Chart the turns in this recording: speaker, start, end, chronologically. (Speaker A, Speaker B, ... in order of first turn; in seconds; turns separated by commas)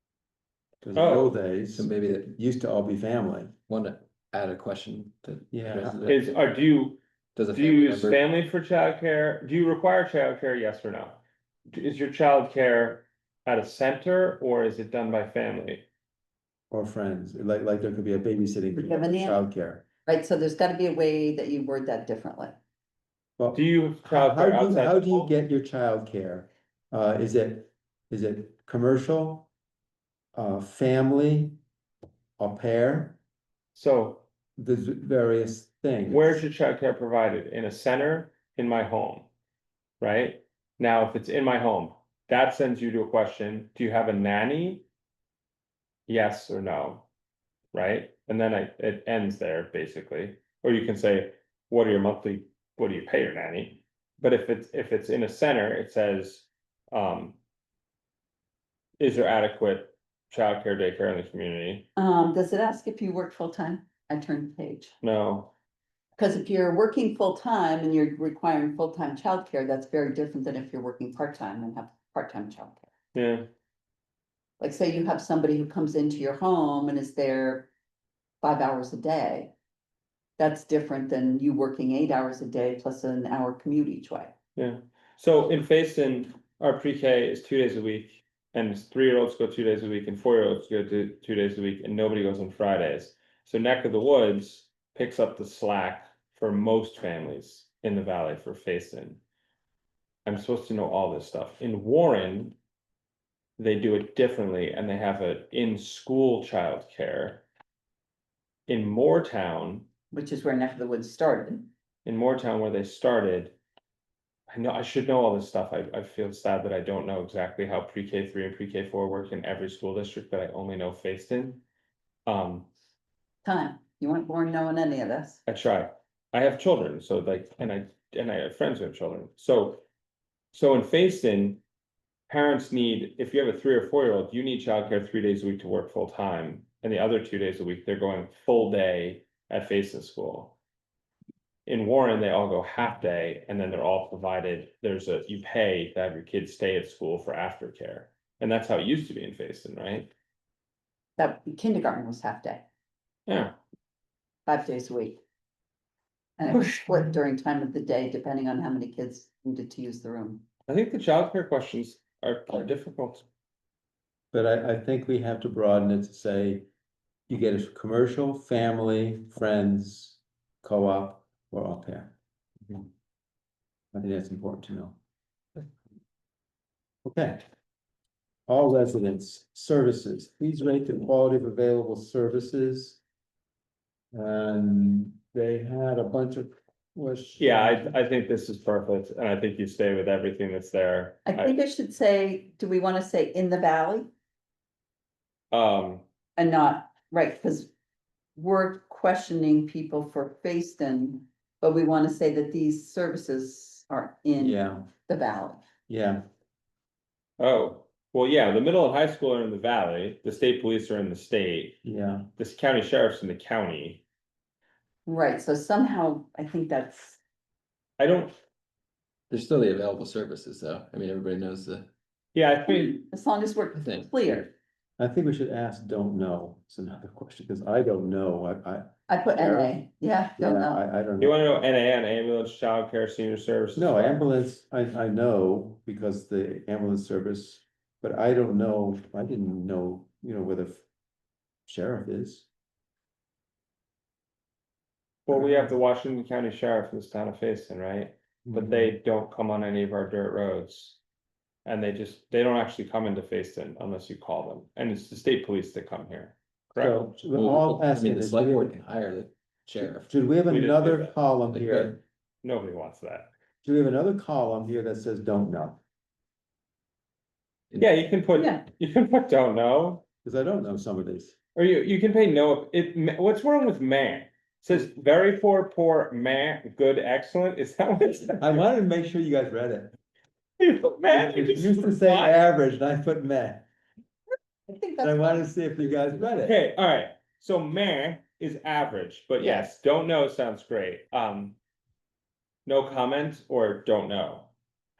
Speaker A: 0.8-3.5, Speaker B: 0.9-1.3, Speaker C: 1.7-2.3, Speaker C: 3.7-6.2, Speaker A: 5.5-6.0, Speaker B: 6.1-7.0, Speaker C: 7.4-8.2, Speaker B: 7.5-11.2, Speaker B: 11.7-15.8, Speaker A: 16.7-19.9, Speaker D: 18.8-19.4, Speaker D: 20.1-22.6, Speaker A: 23.4-29.5, Speaker B: 23.5-25.3, Speaker A: 30.3-31.6, Speaker A: 32.4-33.2, Speaker B: 33.8-34.2, Speaker A: 34.6-36.4, Speaker B: 36.1-39.3, Speaker B: 40.0-44.9, Speaker B: 46.1-47.1, Speaker B: 47.7-57.4, Speaker B: 59.0-61.9, Speaker D: 62.0-64.9, Speaker B: 65.0-65.5, Speaker D: 66.2-72.8, Speaker B: 73.2-73.5, Speaker D: 74.6-77.7, Speaker D: 78.4-79.5, Speaker D: 80.4-84.3, Speaker B: 84.6-99.2, Speaker B: 100.3-102.6, Speaker B: 103.6-107.5, Speaker B: 108.7-109.9, Speaker D: 110.1-111.7, Speaker B: 112.0-113.6, Speaker B: 114.5-121.6, Speaker B: 122.3-122.7, Speaker D: 123.5-125.4, Speaker B: 125.5-129.8, Speaker B: 130.5-131.6, Speaker B: 132.3-140.6, Speaker B: 141.7-150.1, Speaker D: 151.2-152.7, Speaker B: 153.3-153.6, Speaker D: 154.5-155.2, Speaker D: 156.4-160.5, Speaker B: 156.5-157.1, Speaker B: 160.7-163.3, Speaker A: 164.3-166.7, Speaker A: 167.3-172.2, Speaker A: 173.9-175.0, Speaker A: 177.1-177.4, Speaker A: 178.5-183.0, Speaker A: 184.1-187.9, Speaker B: 187.4-191.5, Speaker D: 191.3-194.1, Speaker B: 195.5-196.0, Speaker D: 196.4-197.7, Speaker D: 198.4-205.7, Speaker A: 204.4-204.9, Speaker A: 205.9-206.2, Speaker B: 207.4-211.8, Speaker A: 211.8-212.3, Speaker B: 212.4-214.1, Speaker D: 215.1-217.2, Speaker B: 218.0-218.4, Speaker C: 219.3-221.9, Speaker B: 222.3-223.0, Speaker D: 222.7-224.5, Speaker C: 223.8-224.3, Speaker A: 225.0-229.8, Speaker D: 229.1-230.8, Speaker A: 230.4-231.4, Speaker B: 231.2-234.2, Speaker A: 233.8-240.8, Speaker A: 241.7-242.5, Speaker B: 245.3-251.0, Speaker A: 245.3-245.7, Speaker A: 248.5-248.9, Speaker B: 251.7-257.1, Speaker A: 256.8-258.8, Speaker C: 257.3-260.1, Speaker A: 259.8-262.0, Speaker B: 260.5-261.1, Speaker C: 261.5-262.0, Speaker B: 262.4-263.3, Speaker A: 263.6-265.8, Speaker B: 267.8-270.0, Speaker D: 268.3-268.6, Speaker A: 270.2-271.4, Speaker B: 271.6-278.6, Speaker A: 278.4-280.0, Speaker B: 280.6-282.4, Speaker A: 281.1-283.7, Speaker D: 284.7-285.5, Speaker A: 285.0-286.6, Speaker B: 286.4-291.6, Speaker B: 292.7-294.5